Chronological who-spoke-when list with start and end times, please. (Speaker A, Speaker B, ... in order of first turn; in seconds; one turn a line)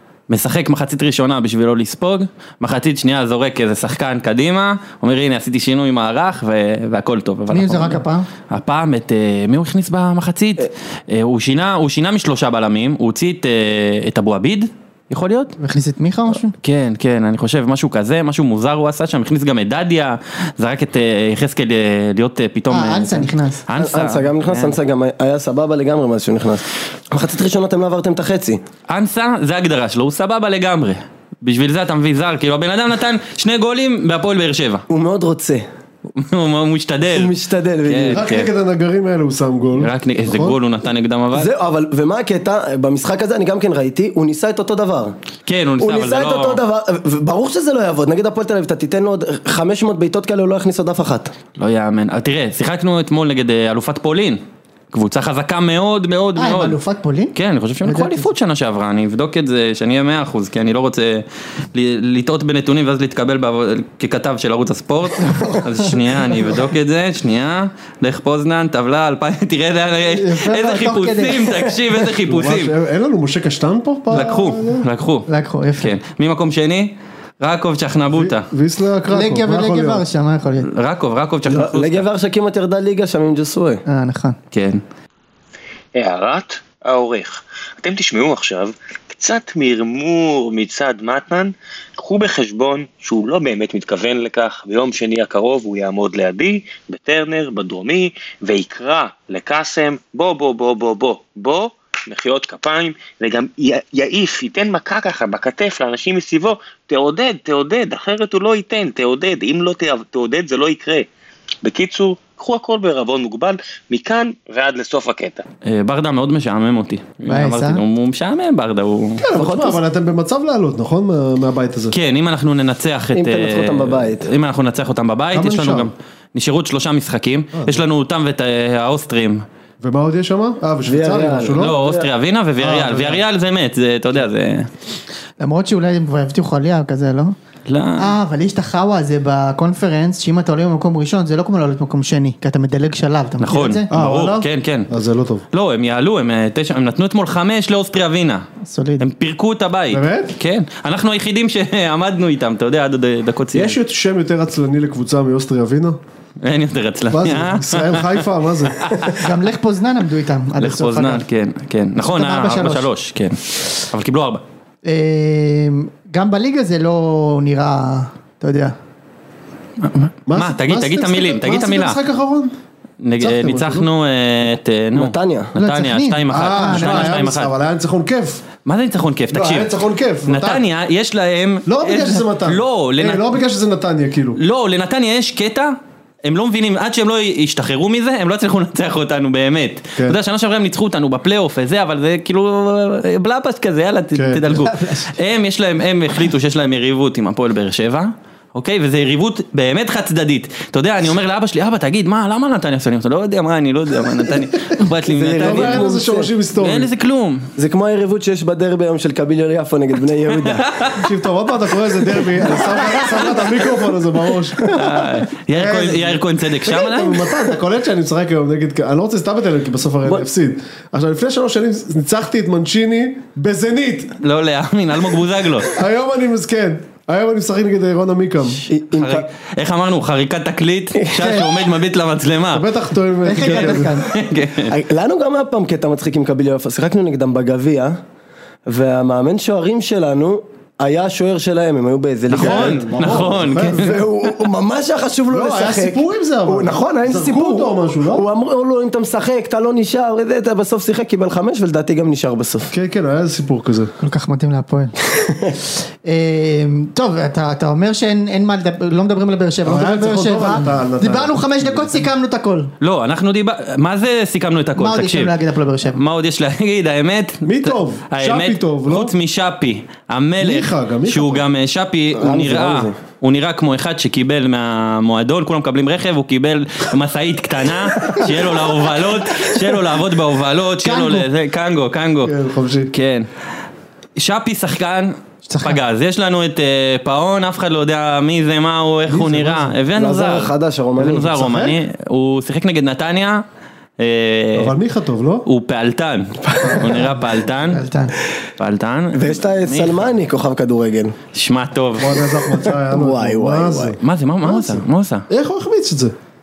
Speaker A: 0.3-15.6
Speaker B: 7.5-8.3
Speaker B: 15.6-16.5
Speaker A: 16.6-24.8
Speaker B: 22.7-23.6
Speaker C: 23.8-28.6
Speaker A: 28.9-34.9
Speaker C: 34.9-35.6
Speaker A: 36.1-37.3
Speaker C: 37.1-38.2
Speaker A: 37.9-38.5
Speaker D: 38.1-40.6
Speaker A: 39.8-41.5
Speaker C: 41.3-45.2
Speaker A: 45.5-46.6
Speaker C: 45.8-51.3
Speaker A: 51.6-54.4
Speaker A: 54.9-56.8
Speaker B: 56.4-58.3
Speaker A: 57.4-72.7
Speaker B: 65.3-65.9
Speaker B: 70.1-71.7
Speaker D: 72.3-74.9
Speaker A: 74.1-75.3
Speaker B: 75.3-75.9
Speaker A: 75.8-78.5
Speaker D: 78.2-80.0
Speaker B: 79.1-80.7
Speaker A: 80.6-82.1
Speaker C: 81.5-83.8
Speaker B: 83.9-84.4
Speaker A: 84.5-84.8
Speaker E: 86.0-111.1
Speaker E: 111.6-115.4
Speaker A: 115.6-119.8
Speaker B: 117.2-117.8
Speaker D: 119.2-122.0
Speaker A: 121.9-129.4
Speaker C: 123.1-124.3
Speaker D: 125.3-125.9
Speaker D: 127.5-127.8
Speaker D: 129.8-131.8
Speaker C: 130.8-132.1
Speaker A: 131.6-134.7
Speaker D: 132.6-133.2
Speaker B: 135.4-137.3
Speaker A: 137.7-138.1
Speaker B: 138.0-143.9
Speaker A: 143.4-144.9
Speaker D: 143.9-145.4
Speaker A: 145.5-148.4
Speaker B: 148.7-149.0
Speaker A: 149.0-153.8
Speaker D: 149.9-150.3
Speaker D: 153.5-156.0
Speaker A: 156.4-158.2
Speaker D: 157.1-159.1
Speaker A: 158.8-159.3
Speaker B: 159.2-161.2
Speaker A: 160.6-164.4
Speaker B: 162.0-162.9
Speaker B: 164.8-168.8
Speaker A: 169.8-172.0
Speaker D: 170.3-172.5
Speaker A: 173.0-177.5
Speaker D: 173.2-173.9
Speaker C: 174.9-175.5
Speaker B: 175.6-177.3
Speaker D: 176.3-178.4
Speaker A: 178.7-179.7
Speaker D: 179.3-180.6
Speaker A: 180.3-183.3
Speaker D: 181.7-184.4
Speaker A: 184.4-205.9
Speaker D: 194.2-194.6
Speaker C: 205.1-206.3
Speaker D: 205.4-206.9
Speaker A: 206.6-207.5
Speaker C: 207.6-210.7
Speaker A: 210.5-211.1
Speaker D: 211.0-214.8
Speaker C: 212.4-213.3
Speaker C: 214.6-214.9
Speaker A: 214.7-217.3
Speaker D: 215.6-224.1
Speaker A: 224.2-225.7
Speaker D: 225.7-228.6
Speaker C: 228.7-229.2
Speaker A: 228.9-232.7
Speaker B: 231.2-231.5
Speaker D: 232.5-233.9
Speaker B: 233.2-234.1
Speaker A: 233.4-234.7
Speaker C: 234.7-238.0
Speaker C: 238.7-252.7
Speaker A: 242.3-244.1
Speaker D: 242.3-244.0
Speaker D: 245.3-248.3
Speaker D: 252.7-253.9
Speaker B: 254.0-254.9
Speaker C: 255.2-255.6
Speaker B: 256.1-262.7
Speaker D: 259.6-262.1
Speaker A: 262.8-265.3
Speaker B: 264.8-266.0
Speaker A: 265.9-282.4
Speaker D: 267.4-269.1
Speaker D: 270.4-271.5
Speaker C: 272.1-273.0
Speaker B: 280.8-281.3
Speaker D: 282.2-282.9
Speaker A: 282.9-283.3
Speaker A: 284.2-293.4
Speaker B: 285.5-285.8
Speaker D: 289.1-289.8
Speaker C: 289.9-291.3
Speaker D: 291.2-291.8
Speaker A: 294.0-294.7
Speaker D: 294.6-295.5
Speaker A: 295.5-297.8
Speaker C: 296.5-297.0
Speaker B: 296.8-298.2
Speaker A: 298.6-300.1
Speaker C: 299.1-301.1
Speaker A: 301.3-302.2
Speaker D: 302.0-306.1
Speaker C: 302.9-304.0
Speaker A: 304.0-305.3